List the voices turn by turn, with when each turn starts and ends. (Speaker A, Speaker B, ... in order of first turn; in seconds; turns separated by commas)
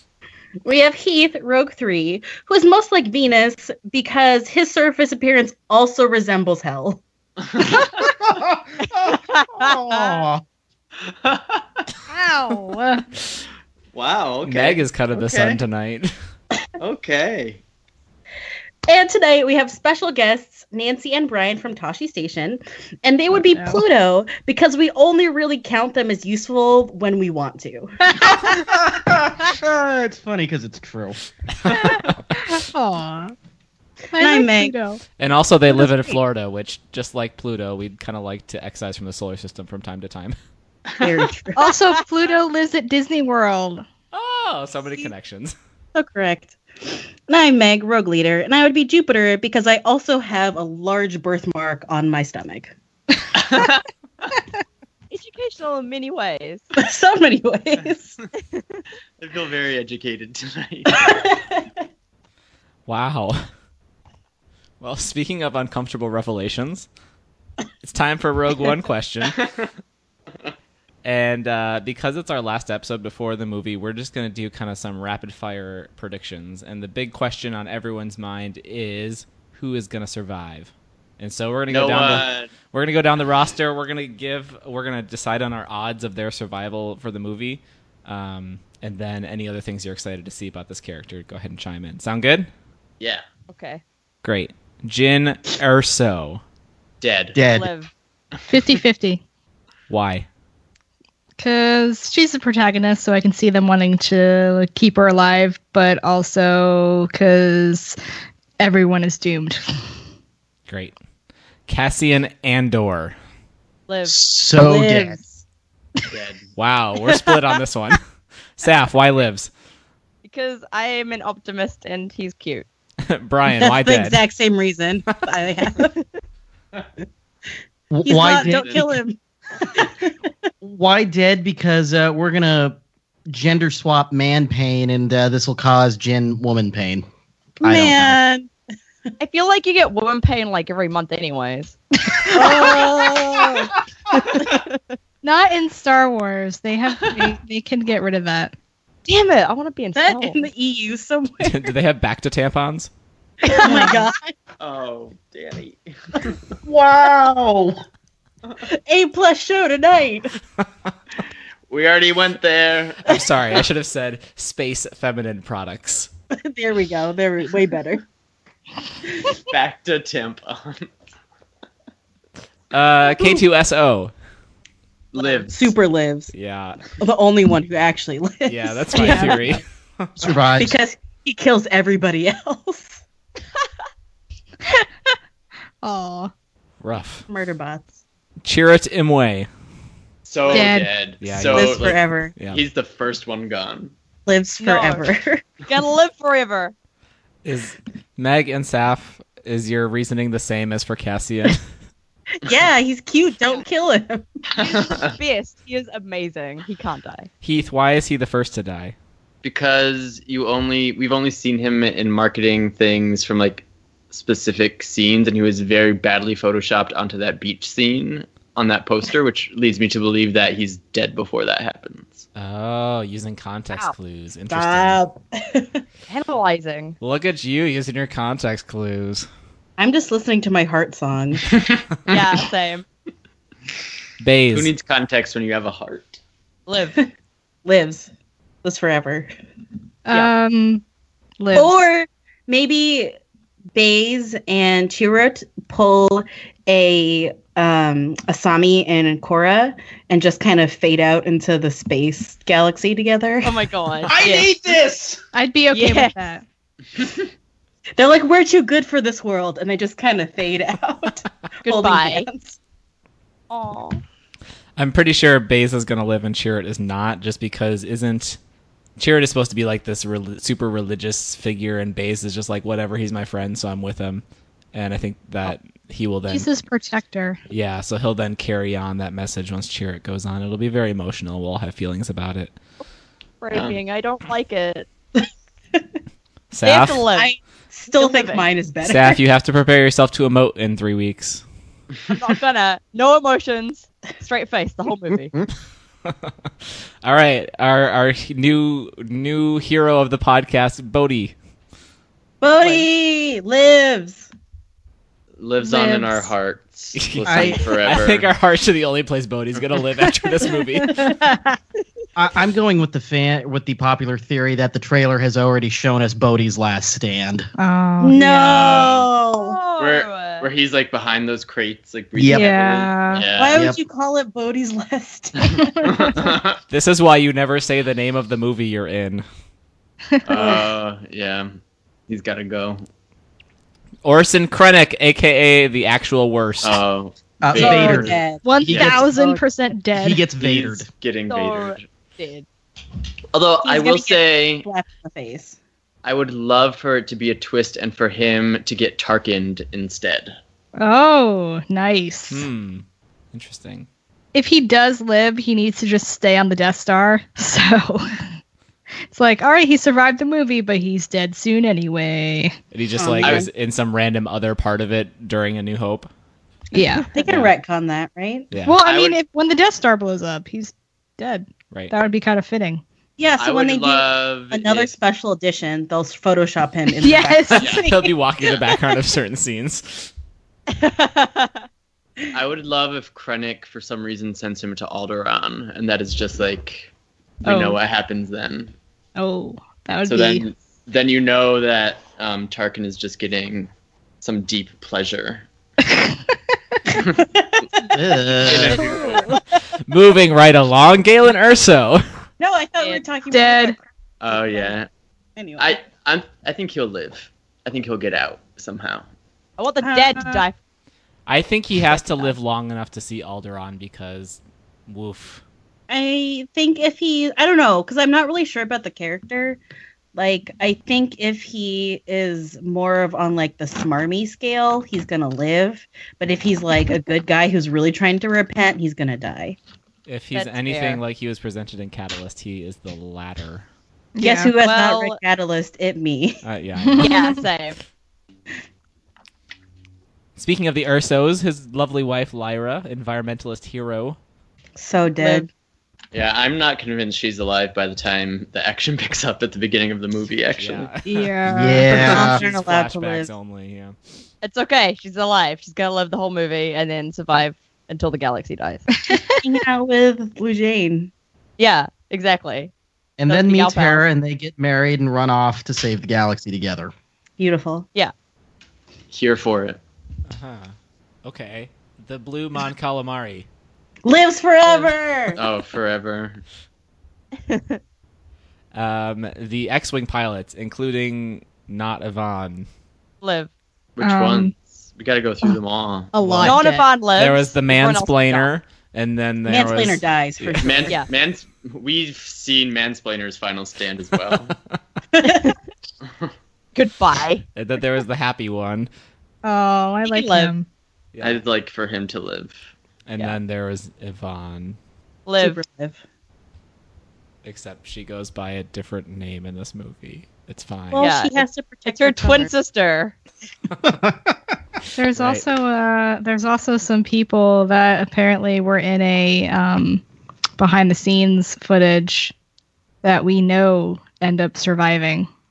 Speaker A: 0.6-7.0, Speaker B: 7.4-8.1, Speaker C: 8.0-10.4, Speaker D: 9.1-10.2, Speaker B: 11.1-11.6, Speaker E: 12.1-13.1, Speaker B: 13.9-15.6, Speaker F: 14.4-16.1, Speaker B: 16.8-17.6, Speaker A: 18.9-27.9, Speaker E: 23.5-23.8, Speaker C: 28.4-31.1, Speaker E: 31.8-33.3, Speaker E: 34.1-35.0, Speaker A: 34.1-34.7, Speaker F: 35.1-40.3, Speaker A: 41.0-41.6, Speaker E: 41.5-43.9, Speaker F: 44.1-45.5, Speaker A: 45.9-52.7, Speaker B: 53.3-54.3, Speaker D: 55.1-56.6, Speaker A: 56.8-58.1, Speaker B: 59.2-61.2, Speaker A: 60.9-61.6, Speaker F: 62.9-63.4, Speaker F: 64.8-66.9, Speaker F: 67.8-69.4, Speaker F: 71.0-92.5, Speaker B: 81.7-82.5, Speaker D: 93.5-93.8, Speaker F: 94.2-96.4, Speaker B: 97.0-97.4, Speaker C: 97.3-97.7, Speaker D: 97.5-97.9, Speaker E: 98.5-99.2, Speaker B: 98.5-98.8, Speaker F: 99.9-100.3, Speaker E: 101.4-108.0, Speaker E: 108.6-109.6, Speaker F: 110.7-110.9, Speaker F: 111.7-113.1, Speaker D: 113.9-114.2, Speaker C: 114.0-115.2, Speaker A: 114.6-115.4, Speaker B: 116.1-116.5, Speaker F: 116.6-118.0, Speaker F: 118.6-119.5, Speaker D: 120.2-122.7, Speaker F: 123.0-124.2, Speaker A: 123.6-125.9, Speaker C: 127.9-128.9, Speaker A: 128.0-129.2, Speaker B: 128.2-128.8, Speaker A: 129.7-130.1, Speaker C: 130.6-132.8, Speaker C: 133.3-137.0, Speaker A: 137.6-138.5, Speaker C: 137.6-138.2, Speaker D: 139.2-141.8, Speaker E: 142.1-143.0, Speaker A: 142.3-143.7, Speaker D: 144.2-144.8, Speaker E: 145.2-148.5, Speaker D: 149.1-150.4, Speaker A: 149.9-151.7, Speaker F: 151.4-152.9, Speaker A: 153.4-154.3, Speaker E: 153.7-154.0, Speaker B: 154.6-156.3, Speaker C: 156.6-157.8, Speaker A: 158.6-160.3, Speaker B: 161.7-163.6, Speaker F: 163.1-166.1, Speaker A: 166.3-168.0, Speaker B: 169.5-170.9, Speaker F: 172.7-174.1, Speaker B: 175.1-175.7, Speaker A: 175.2-176.3, Speaker F: 176.3-176.8, Speaker A: 177.0-179.6, Speaker F: 178.5-180.1, Speaker E: 178.9-179.5, Speaker C: 180.2-180.7, Speaker A: 180.6-183.0, Speaker E: 185.8-186.3, Speaker F: 186.8-187.2, Speaker A: 187.3-187.9, Speaker F: 188.4-189.5, Speaker B: 190.2-193.9, Speaker E: 190.5-190.9, Speaker F: 191.2-192.6, Speaker A: 191.5-192.3, Speaker A: 194.2-195.4, Speaker D: 194.6-195.1, Speaker D: 195.7-196.7, Speaker F: 197.4-201.6, Speaker A: 202.4-204.2, Speaker B: 204.5-205.1, Speaker D: 204.6-207.3, Speaker F: 207.4-208.9, Speaker B: 209.4-222.2, Speaker F: 222.3-225.0, Speaker A: 224.5-225.8, Speaker D: 226.1-226.9, Speaker F: 227.0-229.3, Speaker A: 229.8-231.4, Speaker B: 231.7-232.2, Speaker D: 232.1-232.8, Speaker F: 234.2-234.7, Speaker B: 234.5-236.2, Speaker D: 236.7-237.0, Speaker A: 237.7-238.1, Speaker A: 238.6-239.3, Speaker E: 240.1-240.8, Speaker E: 241.4-241.8, Speaker A: 241.5-243.1, Speaker A: 243.7-253.5, Speaker D: 253.4-254.5, Speaker C: 254.1-255.2, Speaker E: 255.3-256.4, Speaker D: 255.7-256.1, Speaker A: 258.0-262.6, Speaker D: 261.6-262.3, Speaker D: 263.5-264.0, Speaker F: 264.8-268.4, Speaker F: 269.0-274.2, Speaker F: 274.7-276.5, Speaker E: 276.3-277.4, Speaker F: 277.5-282.5, Speaker D: 283.4-284.9, Speaker B: 283.5-283.8, Speaker F: 286.5-287.1, Speaker D: 286.6-287.4, Speaker A: 287.1-289.2, Speaker D: 287.9-288.5, Speaker F: 288.8-291.4, Speaker D: 292.1-295.3, Speaker F: 296.0-296.5, Speaker F: 297.0-301.3, Speaker A: 302.4-304.3, Speaker D: 302.6-302.9, Speaker B: 305.4-308.3, Speaker E: 305.6-306.3, Speaker F: 306.9-311.1, Speaker C: 307.2-307.6, Speaker E: 310.8-311.6, Speaker C: 312.1-317.5, Speaker E: 317.6-318.9, Speaker A: 318.0-319.6, Speaker B: 318.4-319.1, Speaker D: 319.3-320.5, Speaker B: 319.8-323.6, Speaker C: 322.1-322.5, Speaker E: 322.3-323.3, Speaker A: 323.3-326.2, Speaker B: 325.8-326.6, Speaker F: 326.7-329.2, Speaker E: 330.1-330.6, Speaker B: 330.3-332.9, Speaker F: 334.0-336.8, Speaker B: 336.6-339.0, Speaker C: 337.4-339.0, Speaker A: 337.5-339.4, Speaker E: 338.4-340.3, Speaker C: 339.9-340.9, Speaker B: 340.4-341.8, Speaker D: 341.3-342.4, Speaker B: 343.3-344.7, Speaker A: 343.6-345.6, Speaker B: 346.0-350.4, Speaker E: 350.8-352.5, Speaker F: 352.3-353.9, Speaker E: 354.3-358.2, Speaker E: 359.1-362.6, Speaker F: 362.7-366.1, Speaker A: 363.0-363.4, Speaker B: 363.2-363.5, Speaker E: 366.7-367.1, Speaker A: 367.1-368.5, Speaker F: 367.2-367.5, Speaker F: 368.5-368.8, Speaker E: 368.6-372.8, Speaker B: 368.8-369.2, Speaker A: 373.2-377.7, Speaker B: 373.4-374.9, Speaker E: 376.9-378.0, Speaker B: 377.6-377.9, Speaker F: 377.7-380.1, Speaker D: 380.7-381.6, Speaker B: 382.3-386.9, Speaker B: 387.4-388.7, Speaker E: 387.4-387.8, Speaker E: 389.1-390.5, Speaker B: 390.1-395.5, Speaker B: 396.9-397.2, Speaker C: 397.9-398.9, Speaker B: 398.4-399.3, Speaker F: 399.9-402.0, Speaker A: 402.4-403.8, Speaker E: 403.3-403.8, Speaker B: 404.2-404.9, Speaker A: 404.3-404.8, Speaker A: 405.4-405.8, Speaker B: 405.6-409.1, Speaker D: 409.6-410.6, Speaker A: 409.8-410.4, Speaker F: 411.3-415.4, Speaker D: 411.9-412.3, Speaker A: 415.9-419.6, Speaker A: 420.1-429.6, Speaker F: 430.1-433.6, Speaker D: 430.3-431.0, Speaker E: 434.1-434.5, Speaker A: 434.2-436.4, Speaker D: 434.6-435.2, Speaker F: 436.4-437.1, Speaker E: 436.8-437.3, Speaker D: 437.0-437.8, Speaker F: 440.4-444.2, Speaker A: 444.8-445.5, Speaker D: 445.1-445.5, Speaker B: 446.1-450.9, Speaker F: 450.6-451.3, Speaker E: 451.1-452.4, Speaker C: 451.5-452.4, Speaker F: 451.9-454.0, Speaker A: 451.9-453.3, Speaker D: 454.4-458.9, Speaker E: 459.1-459.4, Speaker A: 459.4-461.1, Speaker D: 461.6-462.7, Speaker C: 463.2-466.9, Speaker D: 463.3-464.1, Speaker A: 467.4-467.9, Speaker B: 469.1-469.8, Speaker F: 470.3-470.7, Speaker F: 471.2-473.5, Speaker A: 474.0-475.4, Speaker B: 475.3-476.4, Speaker D: 477.5-477.8, Speaker F: 478.7-482.7, Speaker D: 483.2-483.5, Speaker B: 483.9-486.6, Speaker E: 484.0-484.5, Speaker E: 486.1-486.9, Speaker D: 486.4-488.5, Speaker F: 487.1-490.7, Speaker A: 489.4-490.9, Speaker B: 490.6-494.6, Speaker A: 495.1-495.5, Speaker D: 495.3-495.6, Speaker B: 496.0-496.3, Speaker D: 496.7-497.4, Speaker F: 497.5-498.9, Speaker E: 499.4-500.7, Speaker D: 500.0-500.5, Speaker F: 501.1-501.4, Speaker B: 501.2-502.6, Speaker F: 503.1-504.8, Speaker D: 505.2-505.6, Speaker A: 505.4-506.0, Speaker F: 507.4-511.1, Speaker A: 510.9-512.5, Speaker D: 511.0-513.1, Speaker C: 513.8-514.3, Speaker E: 515.0-520.0, Speaker F: 515.1-515.4, Speaker E: 520.6-522.3, Speaker E: 523.0-525.3